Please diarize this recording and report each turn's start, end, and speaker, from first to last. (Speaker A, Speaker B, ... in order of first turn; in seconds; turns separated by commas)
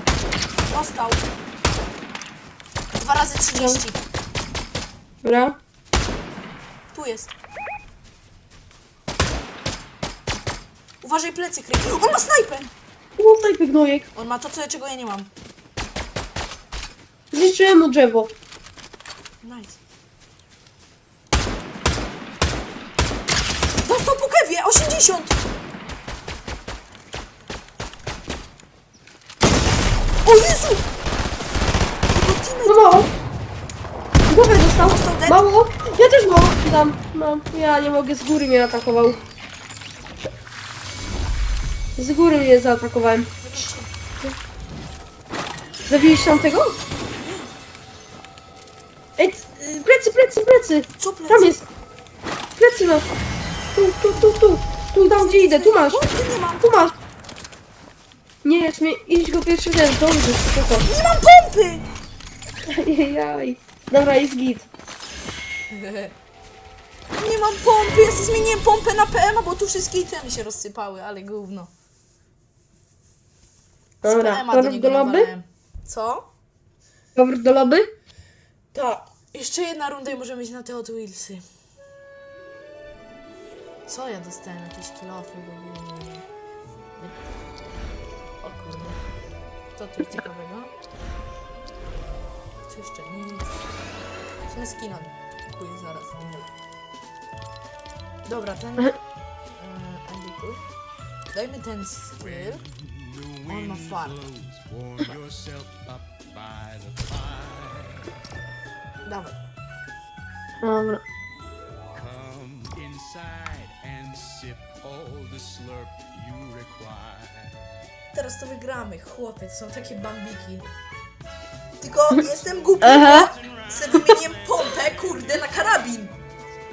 Speaker A: 0.7-1.2, Speaker A: 2.9-4.0, Speaker B: 3.5-3.8, Speaker B: 5.2-5.6, Speaker A: 6.9-7.3, Speaker A: 11.0-12.7, Speaker B: 13.2-14.1, Speaker A: 14.1-15.3, Speaker B: 17.3-18.3, Speaker A: 19.4-19.8, Speaker A: 23.8-25.4, Speaker A: 30.2-30.9, Speaker A: 32.1-33.1, Speaker B: 32.7-33.1, Speaker B: 34.3-39.2, Speaker A: 34.7-35.5, Speaker B: 42.0-44.4, Speaker A: 43.4-43.9, Speaker B: 45.9-46.8, Speaker A: 47.2-47.5, Speaker B: 49.2-51.6, Speaker A: 51.0-51.6, Speaker B: 52.6-53.1, Speaker B: 53.8-56.1, Speaker A: 55.0-56.7, Speaker B: 56.6-56.9, Speaker B: 58.4-60.9, Speaker A: 60.9-61.9, Speaker B: 62.7-64.7, Speaker A: 65.7-66.1, Speaker A: 67.2-71.7, Speaker B: 74.0-75.3, Speaker A: 74.0-76.3, Speaker B: 77.2-77.9, Speaker A: 78.7-81.4, Speaker A: 83.9-86.2, Speaker A: 87.0-87.2, Speaker A: 88.4-89.0, Speaker A: 89.8-90.7, Speaker A: 92.7-93.6, Speaker A: 94.5-96.5, Speaker A: 98.2-99.0, Speaker A: 99.5-100.6, Speaker A: 101.3-102.7, Speaker C: 102.3-108.0, Speaker A: 103.5-104.2, Speaker A: 109.0-109.4, Speaker B: 110.6-111.0, Speaker C: 111.9-117.7, Speaker A: 118.1-120.7, Speaker A: 121.8-126.2, Speaker B: 122.8-123.3, Speaker C: 123.1-124.8